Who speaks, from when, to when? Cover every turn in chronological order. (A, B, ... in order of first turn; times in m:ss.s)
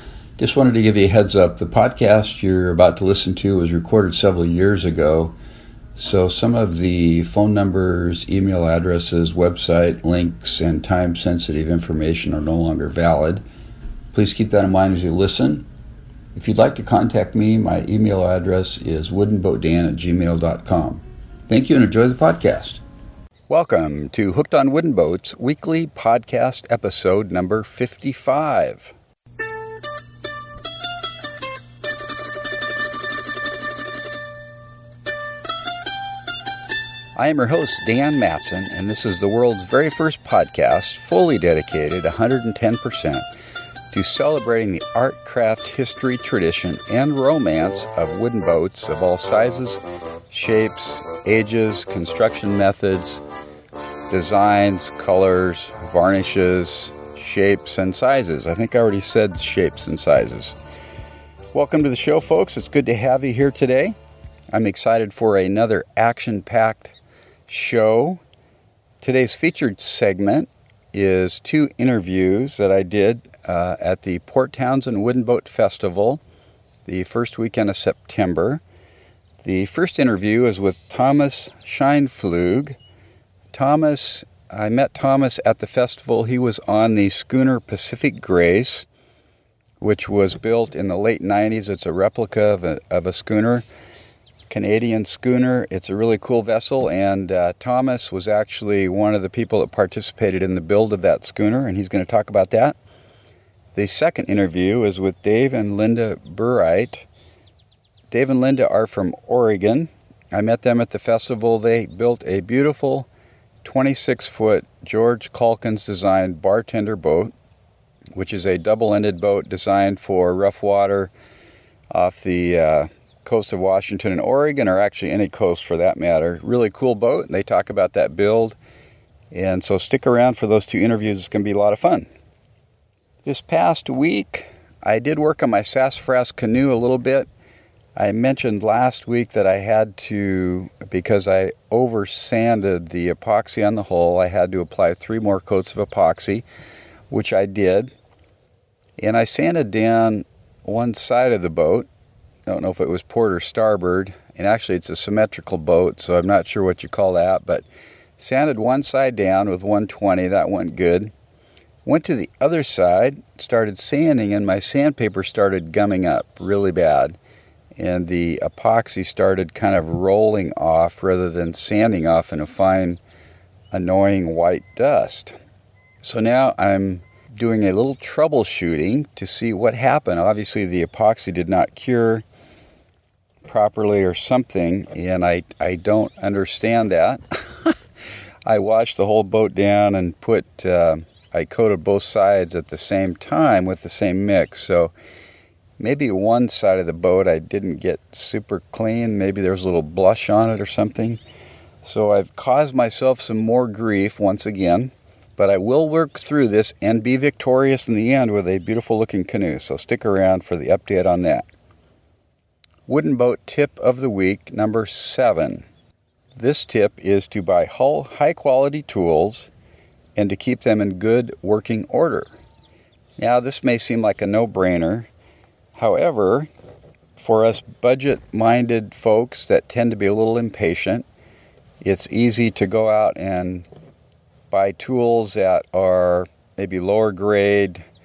0:00.4-0:05.3 A
0:06.0-0:13.4 A
0:14.1-0:15.7 A
0:16.3-0:22.8 A
0:23.5-0:28.9 A
0:37.2-0:43.2 A
0:43.9-0:53.2 A
0:54.1-1:00.6 A
1:01.5-1:04.0 A
1:04.5-1:06.9 A
1:07.5-1:08.2 A
1:09.0-1:16.2 A
1:16.8-1:18.6 A
1:19.4-1:22.8 A
1:23.5-1:28.9 A
1:29.8-1:33.6 A
1:34.5-1:42.8 A
1:43.7-1:47.0 A
1:48.1-1:53.1 A
1:53.6-1:57.3 A
1:58.1-2:01.1 A
2:01.9-2:08.6 A
2:09.3-2:12.1 A
2:13.2-2:17.3 A
2:18.0-2:26.4 A
2:27.1-2:27.9 A
2:29.0-2:31.9 A
2:32.4-2:37.6 A
2:38.2-2:41.1 A
2:41.8-2:47.2 A
2:47.8-2:53.0 A
2:53.7-2:55.3 A
2:56.0-3:02.2 A
3:03.4-3:07.7 A
3:08.4-3:14.9 A
3:15.8-3:21.2 A
3:21.8-3:31.4 A
3:32.9-3:35.6 A
3:36.3-3:39.5 A
3:40.2-3:42.3 A
3:43.2-3:45.1 A
3:45.7-3:46.5 A
3:47.2-3:51.0 A
3:51.8-3:53.7 A
3:54.5-3:57.8 A